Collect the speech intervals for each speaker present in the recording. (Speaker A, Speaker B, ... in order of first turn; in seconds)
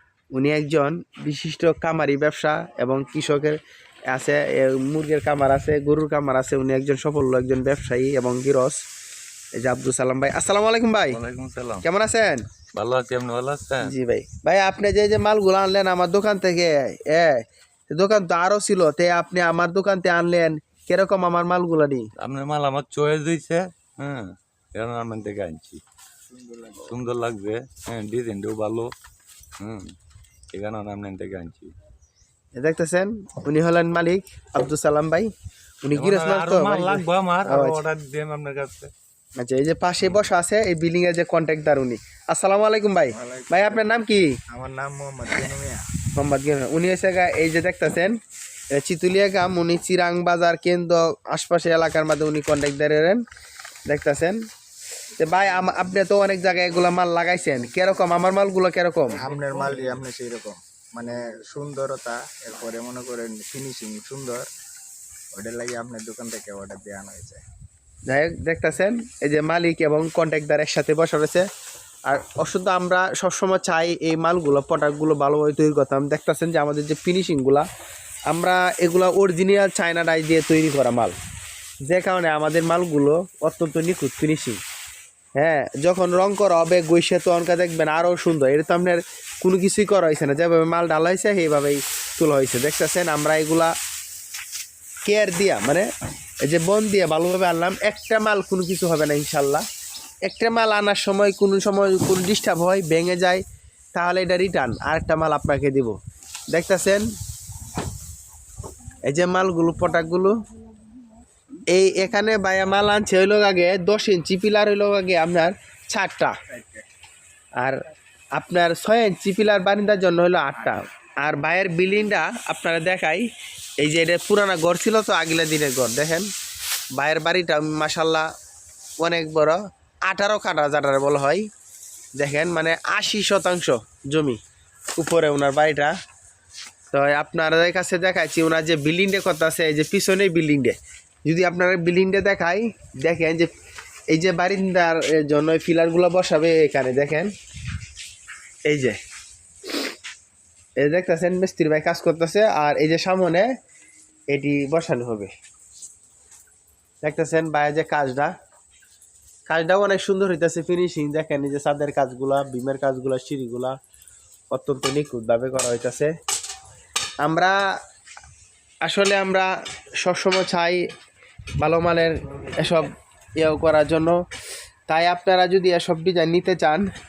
Speaker A: 0.3-3.6, 4.1-8.8, 9.6-11.2, 11.8-12.4, 13.8-17.4, 17.9-22.1, 32.6-35.3, 35.8-37.8, 39.4-44.3, 46.1-48.1, 48.7-53.2, 53.9-54.4, 55.2-59.2, 68.1-71.4, 72.1-77.7, 78.3-81.1, 81.9-84.6, 85.4-93.7, 95.1-95.9, 96.4-99.6, 100.3-103.4, 103.9-106.0, 106.5-107.0, 109.0-110.3, 111.7-116.3, 118.3-123.2, 123.8-126.3, 127.0-128.3, 129.0-131.5, 132.2-134.4, 135.0-135.9, 136.9-143.5, 144.1-147.3, 148.7-149.0, 150.8-153.5, 154.3-155.3, 157.0-158.3, 159.5-163.7, 164.5-166.1, 167.2-167.6, 168.8-169.5, 170.0-170.8, 171.6-174.2, 174.9-176.9
Speaker B: 11.1-11.8, 12.7-13.9, 22.2-25.8, 26.8-28.9, 29.6-29.9, 30.5-31.7, 36.0-38.9
Speaker C: 26.3-26.9, 43.1-43.8, 44.5-45.9, 59.1-64.5, 65.3-67.4